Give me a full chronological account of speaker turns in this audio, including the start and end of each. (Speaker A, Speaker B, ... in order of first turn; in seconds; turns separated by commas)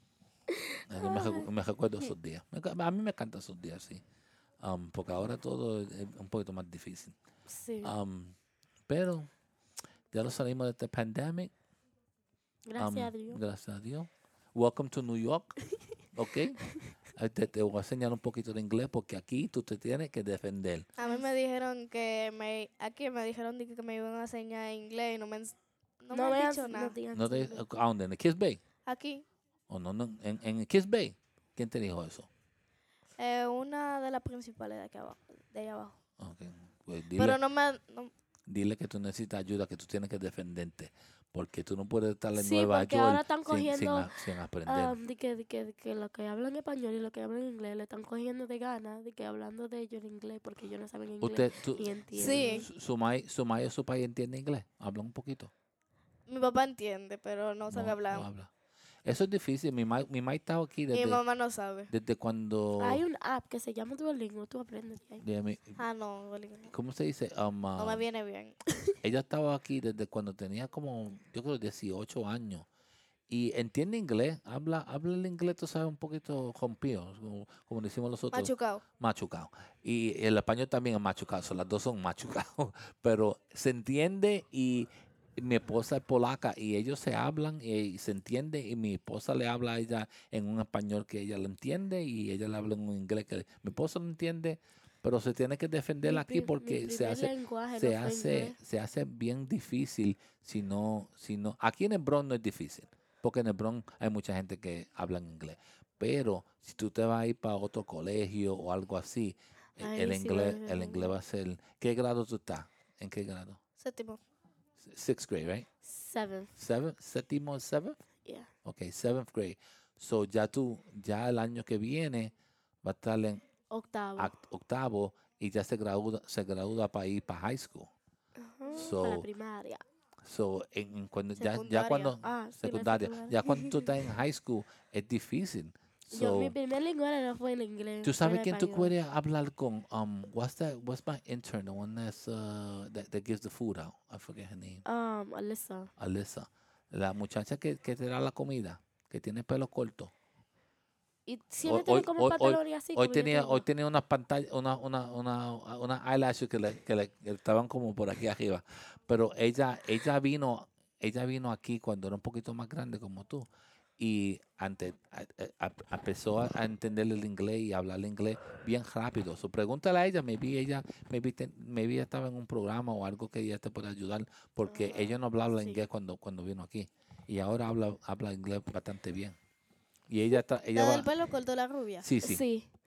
Speaker A: 0.9-4.0, Speaker B: 0.9-1.5, Speaker A: 4.6-7.2, Speaker B: 7.5-7.9, Speaker A: 7.8-8.3, Speaker A: 8.9-9.3, Speaker A: 10.1-11.5, Speaker B: 12.7-13.4, Speaker A: 12.8-15.5, Speaker A: 16.1-20.9, Speaker C: 21.0-26.9, Speaker B: 26.1-27.6, Speaker A: 27.1-28.6, Speaker C: 28.9-29.2, Speaker A: 29.7-32.3, Speaker C: 33.2-36.0, Speaker A: 36.2-37.4, Speaker C: 37.2-38.1, Speaker A: 38.5-45.0, Speaker B: 42.3-44.1, Speaker B: 44.6-52.7, Speaker A: 51.2-55.5, Speaker C: 52.1-52.7, Speaker C: 56.3-58.3, Speaker A: 57.7-58.5, Speaker A: 59.0-61.2, Speaker C: 60.9-61.9, Speaker A: 61.9-63.0, Speaker B: 62.8-65.2, Speaker A: 65.2-65.8, Speaker C: 65.8-66.7, Speaker A: 66.7-68.0, Speaker C: 67.8-68.6, Speaker A: 69.0-72.7, Speaker A: 73.3-113.6, Speaker C: 78.3-78.8, Speaker B: 96.0-98.6, Speaker B: 109.8-111.1, Speaker C: 113.8-114.2, Speaker A: 114.8-115.7, Speaker B: 115.8-116.5, Speaker A: 116.5-118.0, Speaker A: 118.7-122.3, Speaker A: 122.8-123.4, Speaker B: 123.7-124.3, Speaker A: 124.2-127.9, Speaker B: 128.4-129.8, Speaker A: 128.7-129.3, Speaker A: 130.2-136.5, Speaker C: 131.4-132.2, Speaker B: 132.2-133.3, Speaker B: 136.1-138.9, Speaker A: 138.0-144.8, Speaker B: 144.8-145.9, Speaker A: 146.0-150.1, Speaker B: 151.3-153.6, Speaker A: 151.6-163.5, Speaker A: 164.0-179.4, Speaker B: 174.7-175.8, Speaker A: 180.1-181.1, Speaker C: 180.7-182.1, Speaker A: 182.0-182.4, Speaker B: 182.2-182.7